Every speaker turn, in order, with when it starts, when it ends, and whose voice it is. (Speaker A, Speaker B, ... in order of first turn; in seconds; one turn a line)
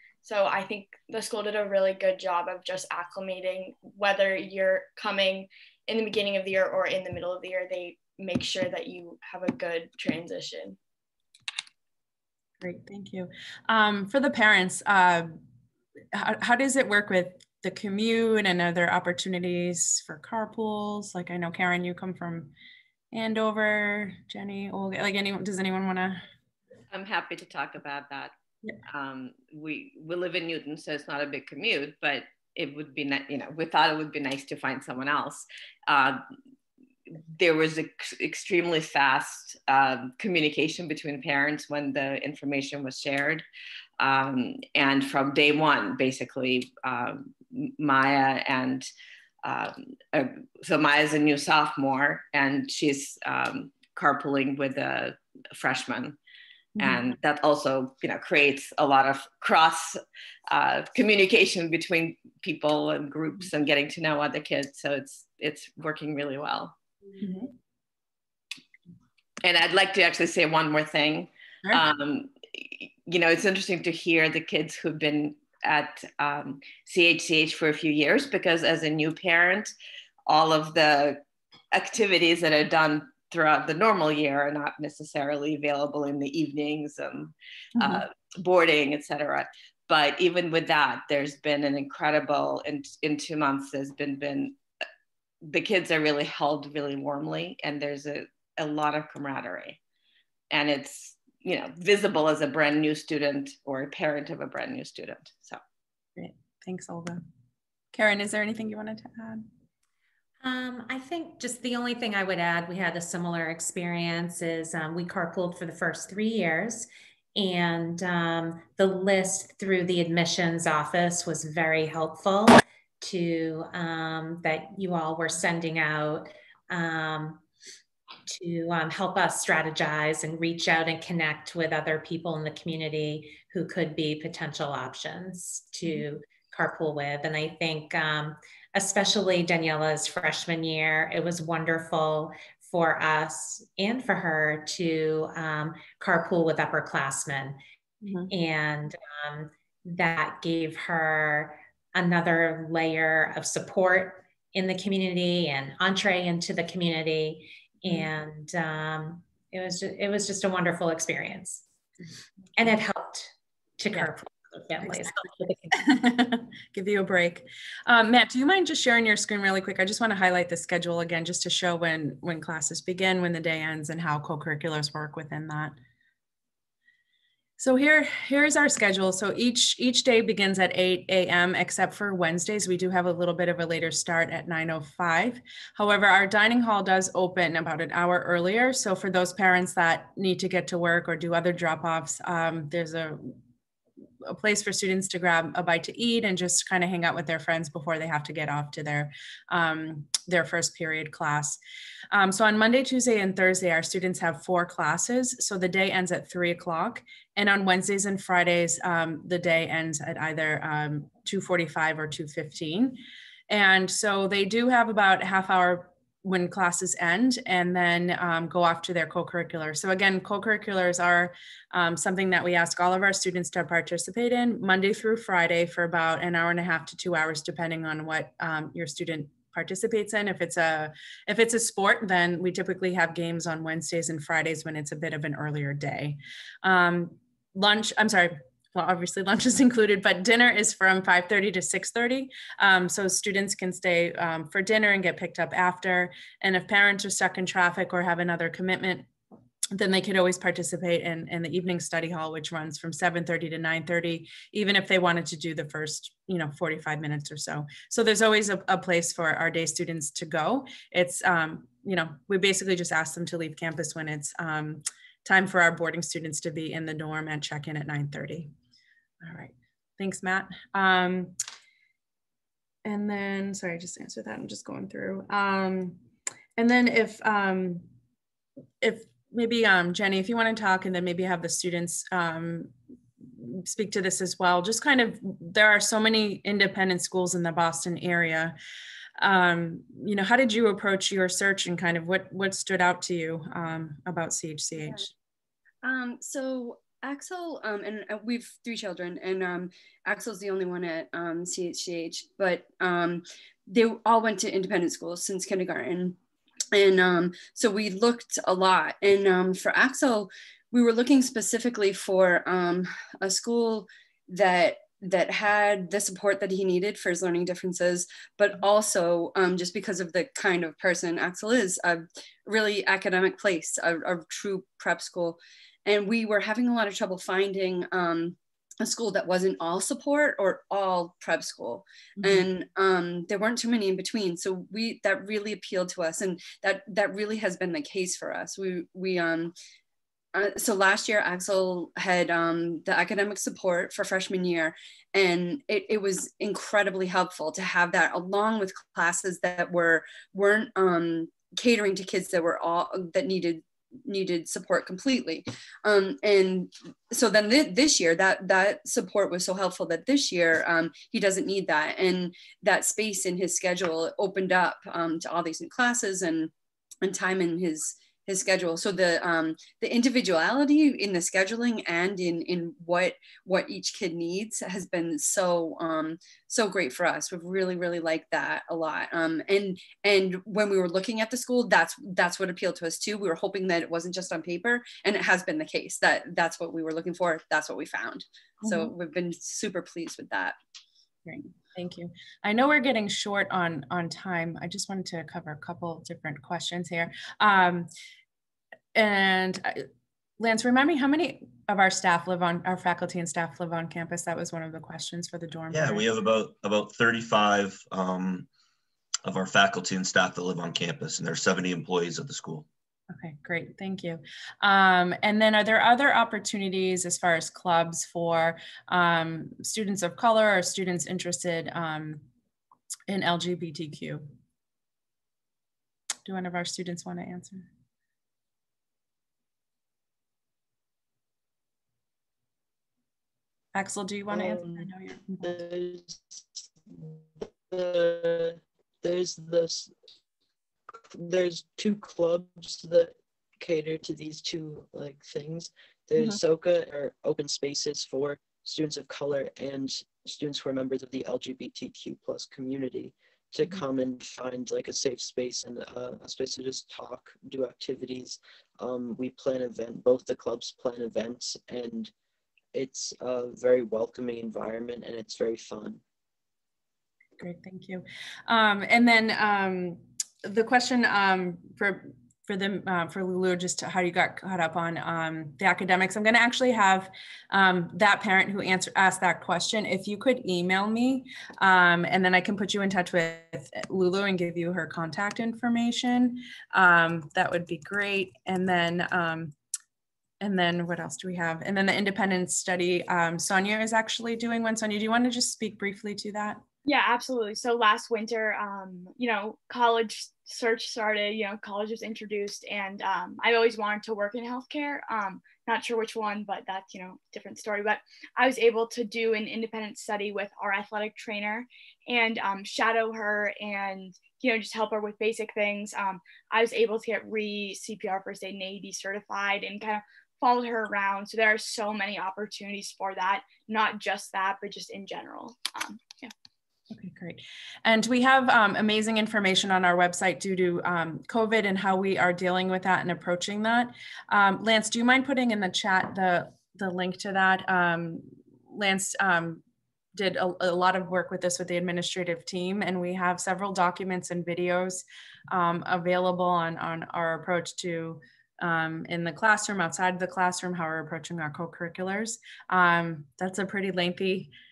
Speaker A: 0.2-10.8
Speaker B: 12.6-15.3
Speaker B: 16.1-22.5
Speaker B: 23.1-26.2
Speaker C: 26.9-28.3
Speaker C: 28.9-36.2
Speaker C: 37.4-43.4
Speaker C: 44.0-48.9
Speaker C: 49.4-56.1
Speaker B: 56.8-57.1
Speaker C: 56.8-60.0
Speaker C: 60.5-66.7
Speaker B: 67.2-67.5
Speaker C: 69.4-79.7
Speaker C: 80.3-81.2
Speaker C: 81.7-94.6
Speaker C: 95.4-99.8
Speaker C: 100.5-105.6
Speaker B: 106.2-107.2
Speaker B: 107.9-109.5
Speaker D: 110.4-127.4
Speaker D: 128.3-147.6
Speaker B: 148.0-148.3
Speaker D: 148.3-161.6
Speaker D: 162.6-165.8
Speaker B: 165.8-175.7
Speaker B: 177.6-193.3
Speaker B: 194.2-201.6
Speaker B: 202.1-249.1
Speaker B: 249.7-268.5
Speaker B: 269.2-271.4
Speaker B: 272.8-276.0
Speaker B: 276.6-277.9
Speaker B: 278.8-288.5
Speaker B: 289.2-295.1
Speaker E: 294.8-295.1
Speaker E: 295.8-306.2
Speaker E: 306.7-339.5
Speaker B: 332.2-332.5
Speaker E: 340.3-366.5
Speaker E: 367.0-390.6
Speaker B: 388.6-388.9
Speaker B: 391.2-397.9
Speaker B: 398.9-399.8
Speaker B: 400.4-406.1
Speaker F: 405.7-408.5
Speaker F: 409.2-412.6
Speaker B: 413.1-422.2
Speaker B: 423.1-424.3
Speaker B: 426.2-427.7
Speaker B: 433.7-435.6
Speaker G: 434.3-439.9
Speaker G: 441.1-462.1
Speaker G: 462.7-466.0
Speaker B: 467.4-489.5
Speaker B: 490.4-496.6
Speaker H: 496.8-526.3
Speaker B: 526.9-539.6
Speaker B: 540.1-554.5